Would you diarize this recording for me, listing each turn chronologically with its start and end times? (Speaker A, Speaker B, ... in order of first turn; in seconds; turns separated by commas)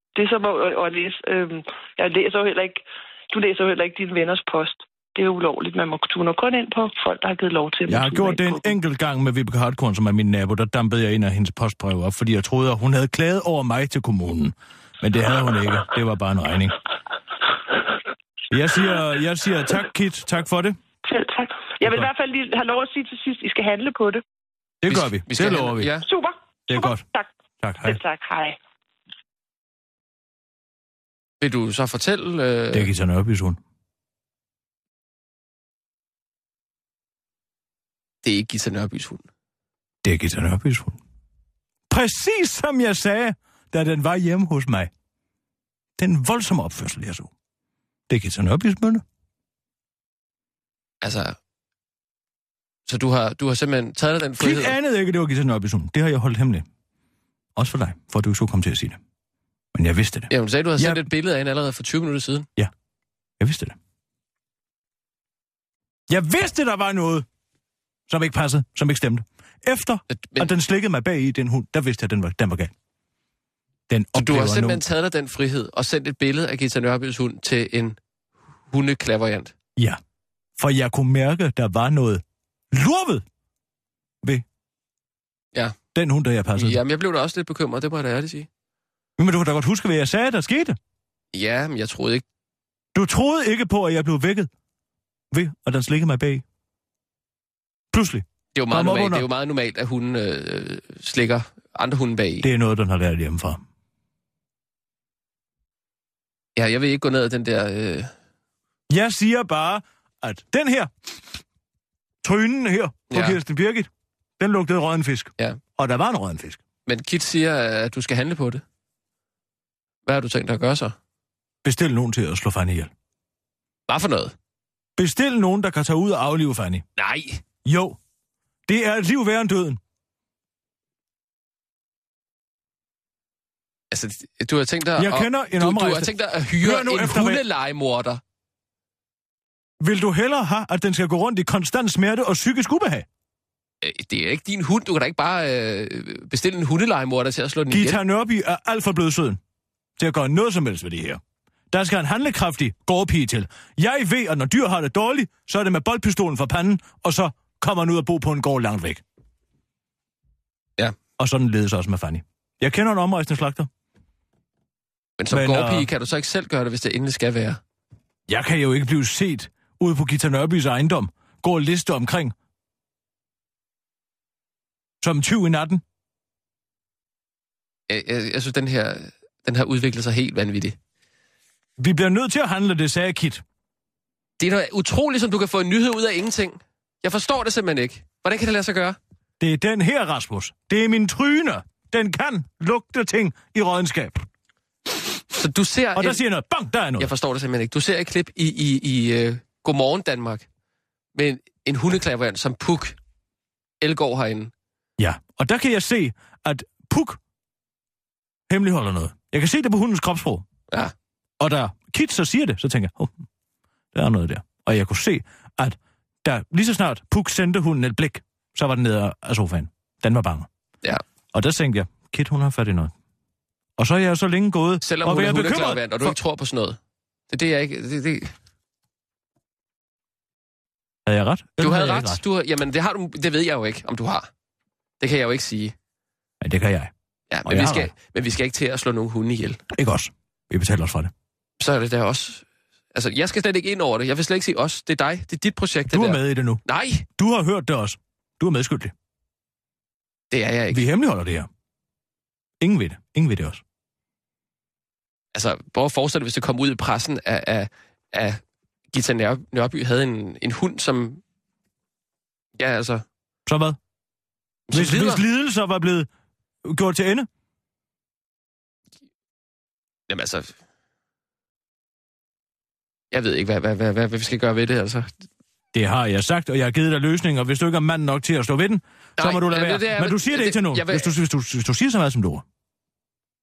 Speaker A: 0.1-8.7, Speaker B: 7.9-16.8, Speaker B: 18.5-20.8, Speaker A: 21.1-24.2, Speaker B: 24.8-25.9, Speaker C: 24.9-26.1, Speaker A: 26.0-27.3, Speaker B: 26.7-27.0, Speaker B: 27.6-28.0, Speaker A: 27.8-28.6, Speaker C: 31.4-32.9, Speaker B: 32.7-33.6, Speaker C: 38.2-39.3, Speaker B: 40.0-41.0, Speaker B: 41.9-44.9, Speaker B: 46.0-47.3, Speaker B: 48.1-49.0, Speaker C: 51.0-51.4, Speaker C: 52.9-54.8, Speaker B: 54.4-56.6, Speaker B: 57.5-59.0, Speaker B: 59.7-61.0, Speaker C: 60.3-62.5, Speaker B: 63.4-63.8, Speaker B: 66.1-67.3, Speaker B: 68.1-72.7, Speaker C: 70.1-70.5, Speaker B: 73.9-74.8, Speaker C: 74.1-78.0, Speaker C: 78.7-79.5, Speaker B: 80.6-83.2, Speaker B: 85.9-86.8, Speaker C: 86.5-88.5, Speaker B: 89.2-90.8, Speaker C: 91.3-92.2, Speaker B: 92.9-94.5, Speaker B: 95.3-96.4, Speaker B: 97.9-99.3, Speaker C: 98.5-102.5, Speaker B: 102.4-103.6, Speaker C: 106.5-108.1, Speaker B: 108.9-110.9, Speaker B: 112.2-116.6, Speaker C: 113.1-113.4, Speaker C: 116.9-118.6, Speaker C: 120.0-121.0, Speaker B: 121.6-122.9, Speaker C: 123.9-124.3, Speaker B: 125.0-126.8, Speaker C: 127.0-127.4, Speaker B: 127.6-128.0, Speaker B: 128.7-129.8, Speaker C: 133.9-138.2, Speaker B: 135.0-137.4, Speaker B: 139.8-143.1, Speaker C: 143.8-148.0, Speaker B: 147.7-149.4, Speaker B: 150.0-151.2, Speaker B: 151.7-159.0, Speaker B: 161.2-163.7, Speaker C: 165.2-167.6, Speaker B: 165.3-165.9, Speaker B: 168.3-172.3, Speaker B: 175.0-175.8, Speaker C: 177.9-180.8, Speaker B: 181.8-183.4, Speaker C: 184.4-189.0, Speaker B: 189.4-194.2, Speaker C: 195.3-196.2, Speaker B: 195.9-197.1, Speaker C: 197.0-200.4, Speaker C: 201.1-203.0, Speaker C: 203.8-204.5, Speaker B: 205.0-207.2, Speaker B: 208.5-210.4, Speaker B: 211.4-213.1, Speaker B: 213.9-220.5, Speaker B: 221.3-222.9, Speaker B: 223.8-226.2, Speaker C: 224.8-226.8, Speaker C: 227.3-228.3, Speaker B: 231.1-232.2, Speaker C: 231.6-234.3, Speaker C: 235.0-235.7, Speaker B: 236.4-236.9, Speaker C: 237.3-239.6, Speaker B: 237.4-237.9, Speaker B: 239.7-241.1, Speaker C: 241.6-247.1, Speaker B: 245.9-248.9, Speaker C: 250.3-250.8, Speaker B: 250.7-251.5, Speaker B: 252.6-253.6, Speaker C: 255.3-258.4, Speaker C: 258.9-261.2, Speaker C: 262.6-263.1, Speaker B: 263.4-263.8, Speaker C: 264.7-265.2, Speaker B: 264.7-266.1, Speaker B: 266.6-267.3, Speaker C: 270.1-270.6, Speaker C: 273.1-275.2, Speaker B: 275.7-282.4, Speaker C: 279.2-281.1